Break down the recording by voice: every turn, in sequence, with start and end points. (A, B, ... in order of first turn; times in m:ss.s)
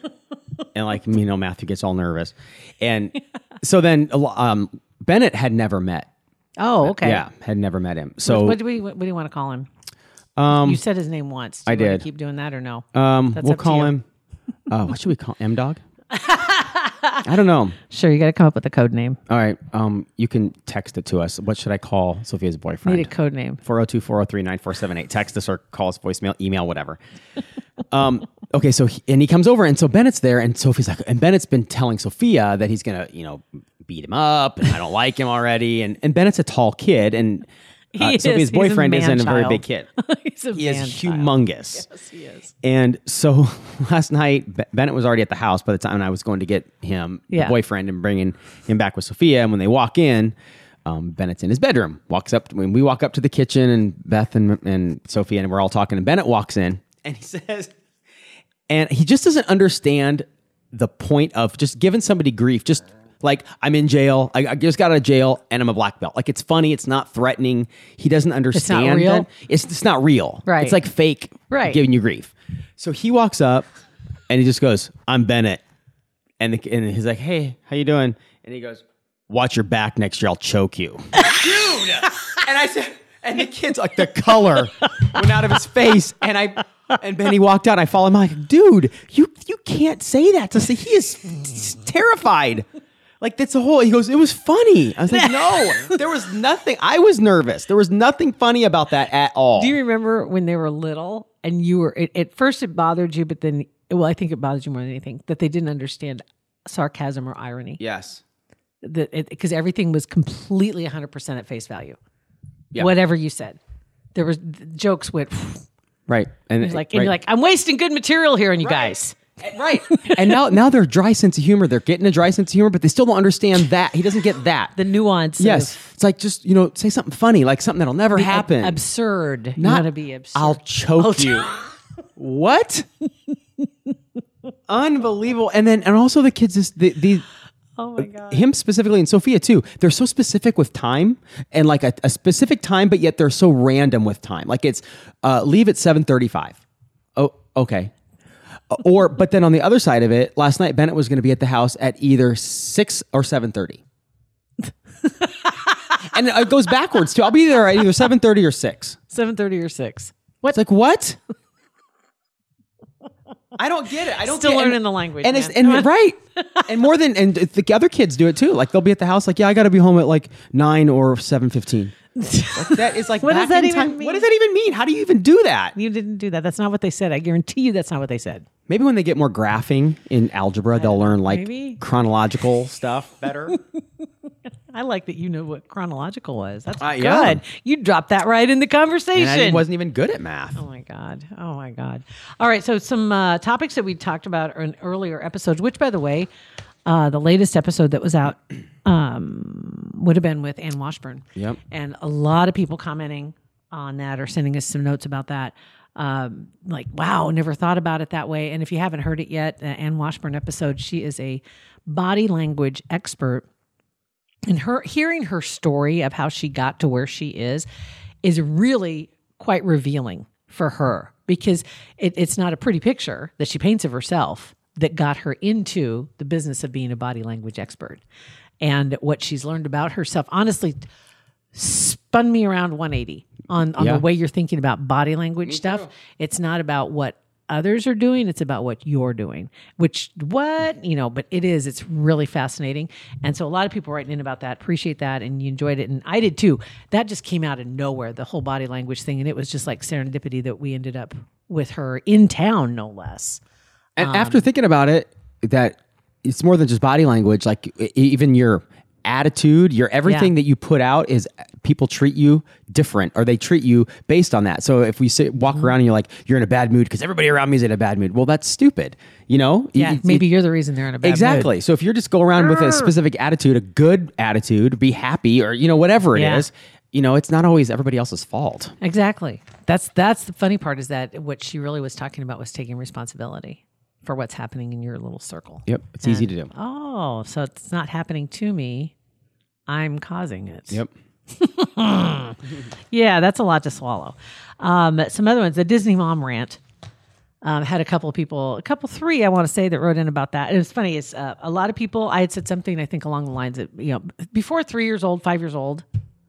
0:00.8-0:06.1 A
0:06.6-0:07.2 B
0:06.8-0:08.6 A
0:08.2-0:09.7 B
0:10.4-0:10.8 A
0:10.5-0:14.0 B
0:11.6-0:12.0 A
0:12.9-0:14.0 A
0:14.7-0:15.8 A
0:16.1-0:17.2 B
0:17.2-0:17.8 A
0:17.9-0:19.2 B
0:19.3-0:27.0 A
0:22.8-0:23.6 B
0:27.9-0:39.9 A
0:37.9-0:42.5 B
0:40.6-0:41.9 A
0:42.6-0:57.7 A
0:58.7-1:13.7 A
1:08.5-1:09.3 B
1:10.5-1:10.8 B
1:11.5-1:11.8 B
1:14.3-1:15.6 A
1:16.4-1:32.6 A
1:33.2-1:39.8 A
1:35.5-1:35.9 B
1:39.6-1:47.8 B
1:47.8-1:48.2 A
1:48.8-1:52.0 B
1:52.8-1:53.6 B
1:54.1-1:55.6 B
1:56.1-1:57.1 A
1:56.6-2:00.4 B
1:58.6-2:04.8 A
2:04.8-2:05.9 B
2:05.4-2:08.8 A
2:08.1-2:11.7 B
2:09.6-2:11.5 A
2:12.2-2:12.9 A
2:14.7-2:17.2 A
2:17.8-2:18.4 B
2:18.0-2:26.6 A
2:27.2-2:27.9 A
2:28.7-2:33.8 A
2:35.1-2:35.6 B
2:36.0-2:39.0 A
2:39.1-2:40.6 B
2:40.5-2:41.2 A
2:43.6-2:51.9 A
2:44.2-2:46.7 B
2:52.2-2:54.3 B
2:52.5-2:55.8 A
2:55.7-2:58.4 B
2:58.7-3:03.6 A
3:00.8-3:01.8 B
3:04.7-3:09.6 B
3:06.8-3:07.4 A
3:09.1-3:10.6 A
3:10.6-3:16.3 B
3:16.9-3:33.4 B
3:34.5-3:37.7 B
3:38.2-3:48.0 B
3:48.6-3:50.8 B
3:51.5-4:13.4 B
3:53.8-3:54.0 A
3:55.4-3:55.9 A
4:14.0-4:30.2 A
4:14.0-4:14.4 B
4:20.0-4:20.3 B
4:29.7-4:31.5 B
4:31.0-4:38.7 A
4:32.5-4:32.9 B
4:36.1-4:36.5 B
4:38.8-4:48.9 B
4:45.6-4:46.5 A
4:49.7-4:56.6 B
4:57.4-5:05.8 B